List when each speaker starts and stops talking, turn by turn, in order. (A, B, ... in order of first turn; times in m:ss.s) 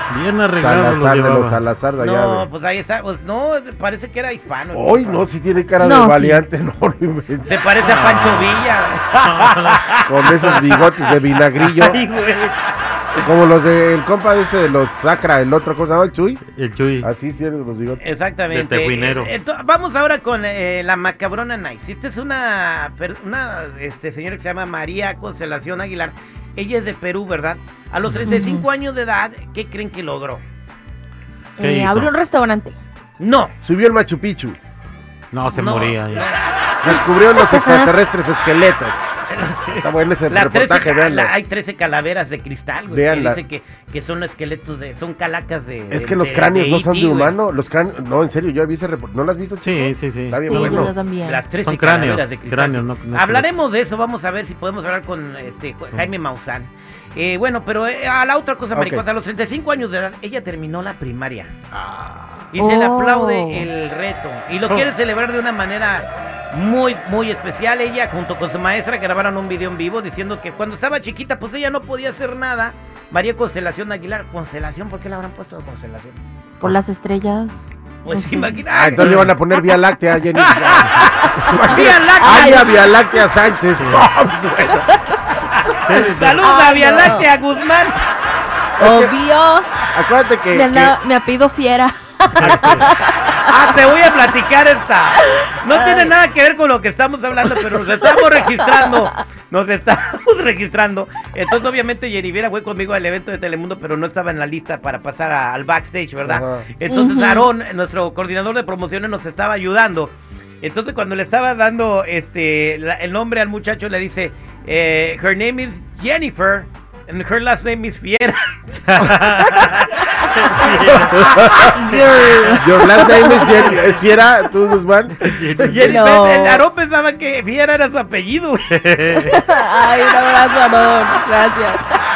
0:00.1-0:01.6 A
0:00.6-0:02.5 B
0:02.0-0:05.3 C
0:04.7-0:07.5 B
0:05.8-0:06.4 D
0:07.4-0:10.6 C
0:07.8-0:08.6 A
0:09.2-0:09.9 A
0:10.1-0:12.0 B
0:11.6-0:12.6 A
0:13.2-0:16.4 B
0:16.5-0:17.1 A
0:17.0-0:18.0 B
0:18.0-0:30.4 C
0:18.5-0:19.3 A
0:28.1-0:28.3 A
0:28.3-0:28.6 D
0:31.6-0:32.8 D
0:31.6-0:32.1 A
0:33.2-0:33.5 C
0:33.6-0:34.6 B
0:35.3-0:36.3 A
0:35.5-0:36.5 C
0:36.8-0:39.0 B
0:37.5-0:37.9 D
0:39.3-0:47.4 C
0:39.7-0:41.3 B
0:42.9-0:43.4 B
0:45.9-0:51.0 B
0:49.6-0:50.9 A
0:50.4-0:51.4 D
0:51.2-1:01.5 C
0:51.6-0:53.6 A
0:58.7-0:59.0 B
1:01.7-1:02.5 A
1:02.5-1:16.2 C
1:02.6-1:03.7 D
1:16.6-1:18.6 D
1:18.0-1:19.3 C
1:18.7-1:24.9 B
1:19.0-1:19.3 A
1:20.4-1:22.8 C
1:21.4-1:22.8 D
1:23.8-1:24.1 A
1:25.3-1:28.0 C
1:25.8-1:26.4 A
1:26.4-1:27.3 D
1:28.8-1:29.2 B
1:28.8-1:29.8 D
1:29.9-1:31.0 B
1:30.5-1:33.8 D
1:32.4-1:32.9 A
1:33.4-2:01.0 C
1:35.3-1:36.1 D
1:38.0-1:39.0 D
1:46.2-1:46.7 B
1:46.9-1:47.5 D
1:58.9-2:04.0 A
2:01.2-2:01.7 B
2:01.6-2:03.7 D
2:02.6-2:05.8 B
2:05.2-2:06.0 A
2:05.7-2:08.7 C
2:05.8-2:06.6 D
2:08.7-2:09.4 A
2:09.2-2:12.0 D